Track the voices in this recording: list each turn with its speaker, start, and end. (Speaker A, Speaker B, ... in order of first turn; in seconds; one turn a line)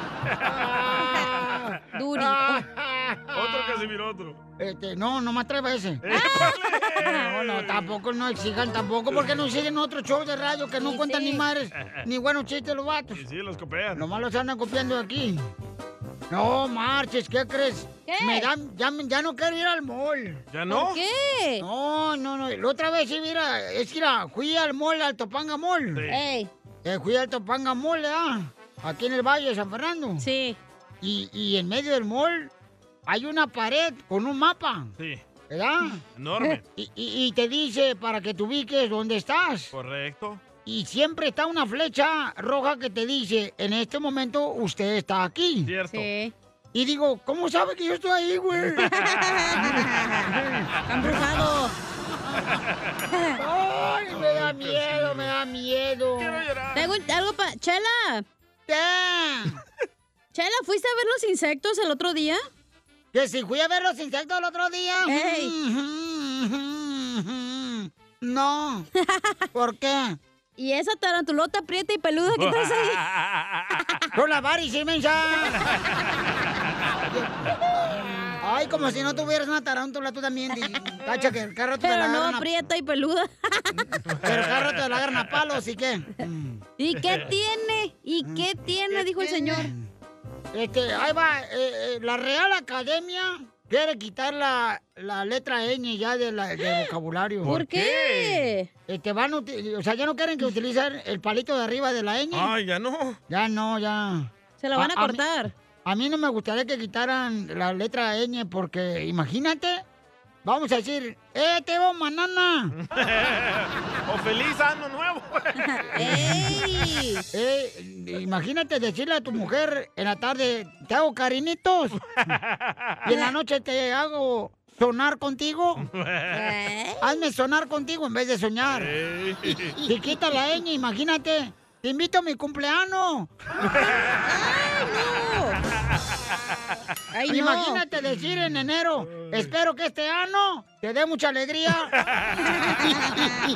Speaker A: 0.3-0.7
Speaker B: 0.4-3.8
Speaker C: 1.9-2.7
Speaker A: 3.3-4.4
Speaker B: 4.6-6.0
Speaker A: 6.0-8.0
Speaker C: 6.1-7.2
Speaker B: 7.1-13.2
Speaker A: 9.1-9.4
Speaker C: 10.8-11.5
Speaker A: 11.8-12.1
Speaker A: 13.1-14.1
Speaker B: 13.9-15.4
Speaker B: 16.3-20.4
Speaker C: 18.1-18.5
Speaker A: 20.5-21.0
Speaker C: 20.7-21.6
Speaker B: 21.6-26.1
Speaker A: 25.9-26.2
Speaker C: 26.1-26.5
Speaker B: 26.9-30.3
Speaker C: 30.2-30.6
Speaker B: 31.0-32.5
Speaker B: 33.1-34.9
Speaker A: 35.0-35.2
Speaker B: 35.5-36.0
Speaker A: 36.2-36.6
Speaker B: 36.8-39.7
Speaker A: 39.7-40.4
Speaker B: 40.6-45.7
Speaker A: 45.7-46.1
Speaker C: 45.9-46.3
Speaker B: 46.7-48.9
Speaker C: 48.9-50.3
Speaker C: 50.9-51.8
Speaker A: 52.5-52.9
Speaker C: 53.1-53.4
Speaker B: 53.4-56.4
Speaker A: 54.1-55.3
Speaker A: 56.2-56.9
Speaker C: 56.8-58.2
Speaker B: 58.7-59.6
Speaker C: 60.3-62.4
Speaker B: 63.1-68.9
Speaker C: 65.1-65.5
Speaker C: 69.0-69.4
Speaker B: 69.5-70.2
Speaker C: 70.6-73.0
Speaker A: 72.4-73.8
Speaker B: 74.1-75.6
Speaker B: 78.4-82.5
Speaker C: 81.8-83.8
Speaker A: 84.1-84.8
Speaker B: 84.2-86.6
Speaker C: 86.8-89.7
Speaker B: 88.2-89.9
Speaker B: 90.5-97.6
Speaker A: 97.4-98.5
Speaker C: 97.5-98.7
Speaker B: 98.9-102.5
Speaker A: 102.3-103.2
Speaker B: 103.3-105.2
Speaker C: 104.6-105.5
Speaker B: 105.8-109.8
Speaker B: 110.5-112.7
Speaker A: 112.8-115.6
Speaker C: 115.6-117.2
Speaker B: 116.0-116.6
Speaker B: 117.3-122.0
Speaker A: 122.1-123.0
Speaker B: 123.0-125.9
Speaker A: 125.8-126.5
Speaker C: 126.3-127.2
Speaker B: 127.0-128.9
Speaker A: 128.7-129.8
Speaker B: 129.8-133.3
Speaker A: 133.8-134.2
Speaker C: 134.2-135.6
Speaker C: 137.1-137.8
Speaker B: 137.3-141.9
Speaker C: 142.5-143.3